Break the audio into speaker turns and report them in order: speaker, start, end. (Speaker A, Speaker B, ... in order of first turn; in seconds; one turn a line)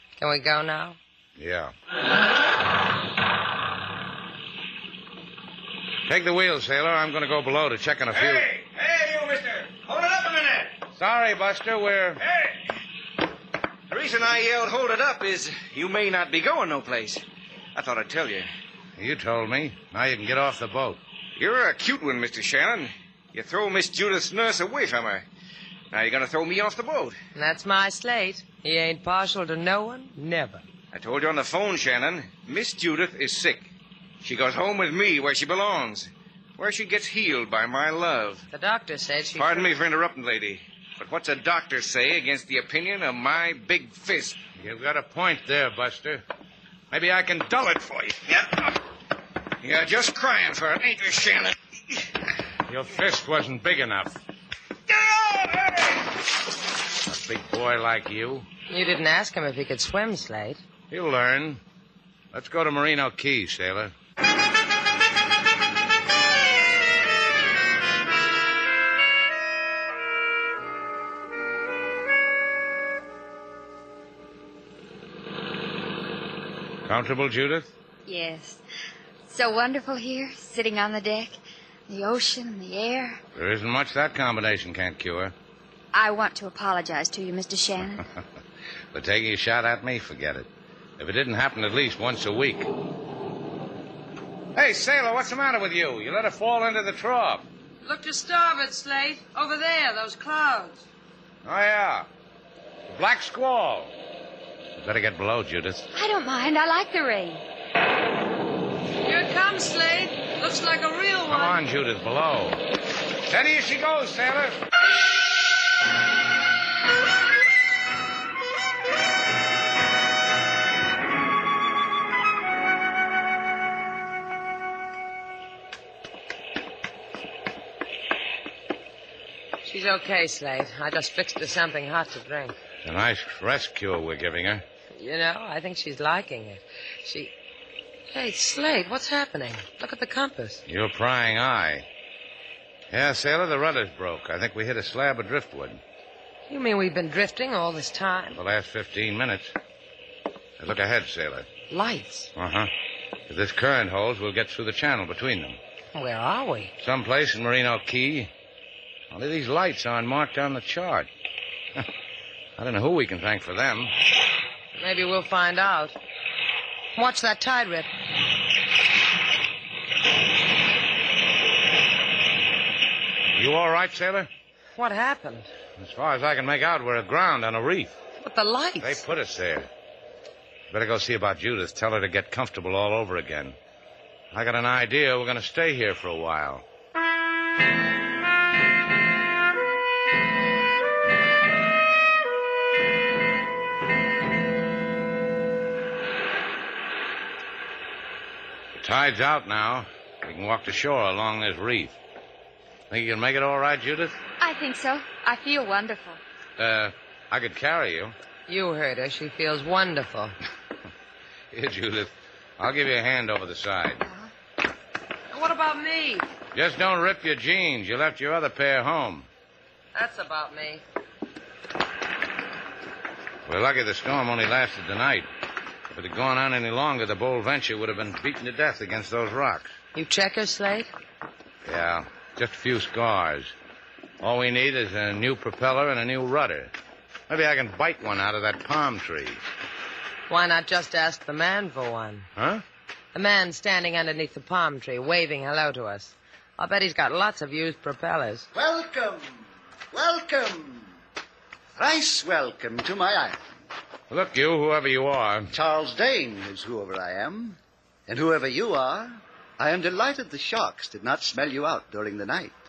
Speaker A: 0.2-1.0
Speaker B: 1.4-1.7
Speaker B: 6.1-8.5
Speaker C: 8.1-10.8
Speaker B: 11.0-12.2
Speaker C: 12.2-12.6
Speaker C: 13.9-17.2
Speaker C: 17.8-18.5
Speaker B: 19.0-21.0
Speaker C: 21.4-25.2
Speaker C: 25.9-27.2
Speaker A: 27.4-30.6
Speaker C: 30.9-33.7
Speaker C: 34.2-38.5
Speaker A: 38.5-39.7
Speaker C: 39.4-44.4
Speaker B: 44.6-46.2
Speaker B: 46.9-48.1
Speaker C: 48.3-48.6
Speaker C: 49.6-51.5
Speaker B: 52.7-54.2
Speaker C: 54.9-55.9
Speaker B: 57.0-58.5
Speaker A: 58.7-60.6
Speaker B: 60.9-61.6
Speaker B: 62.3-63.9
Speaker B: 76.8-77.7
Speaker D: 78.1-78.6
Speaker D: 79.3-81.4
Speaker D: 81.9-83.2
Speaker B: 83.3-85.3
Speaker D: 85.9-88.0
Speaker B: 88.9-92.7
Speaker B: 94.5-97.5
Speaker A: 97.8-100.8
Speaker B: 101.5-102.1
Speaker B: 102.9-103.9
Speaker B: 104.8-105.9
Speaker D: 105.9-107.4
Speaker A: 109.0-111.6
Speaker B: 111.3-112.6
Speaker B: 113.3-114.6
Speaker A: 129.7-132.6
Speaker B: 132.8-134.6
Speaker A: 134.9-137.3
Speaker A: 138.1-140.6
Speaker B: 140.7-141.8
Speaker B: 142.9-145.8
Speaker A: 146.5-148.4
Speaker B: 148.3-149.5
Speaker B: 150.6-151.5
Speaker A: 151.7-152.3
Speaker B: 152.4-152.7
Speaker B: 153.3-155.6
Speaker A: 155.9-156.7
Speaker B: 156.8-158.3
Speaker B: 159.1-161.1
Speaker B: 162.6-163.9
Speaker A: 164.8-166.0
Speaker A: 167.0-167.9
Speaker B: 173.3-174.3
Speaker A: 174.8-175.5
Speaker B: 175.8-177.9
Speaker A: 178.2-179.0
Speaker B: 178.8-179.7
Speaker B: 180.7-183.6
Speaker B: 184.3-186.6
Speaker B: 198.8-202.0
Speaker B: 202.9-204.2
Speaker D: 204.4-206.2
Speaker B: 206.6-208.1
Speaker A: 208.5-210.3
Speaker B: 211.5-214.0
Speaker D: 214.0-214.3
Speaker A: 215.3-216.3
Speaker B: 216.5-219.3
Speaker A: 219.9-220.8
Speaker B: 223.5-225.3
Speaker B: 225.9-229.7
Speaker A: 229.9-230.9
Speaker B: 231.7-233.5
Speaker B: 234.2-236.7
Speaker B: 237.3-239.4
Speaker A: 240.3-242.3
Speaker B: 242.4-242.6
Speaker A: 243.1-248.5
Speaker E: 248.5-251.0
Speaker E: 251.8-253.5
Speaker B: 254.1-255.5
Speaker E: 255.5-262.6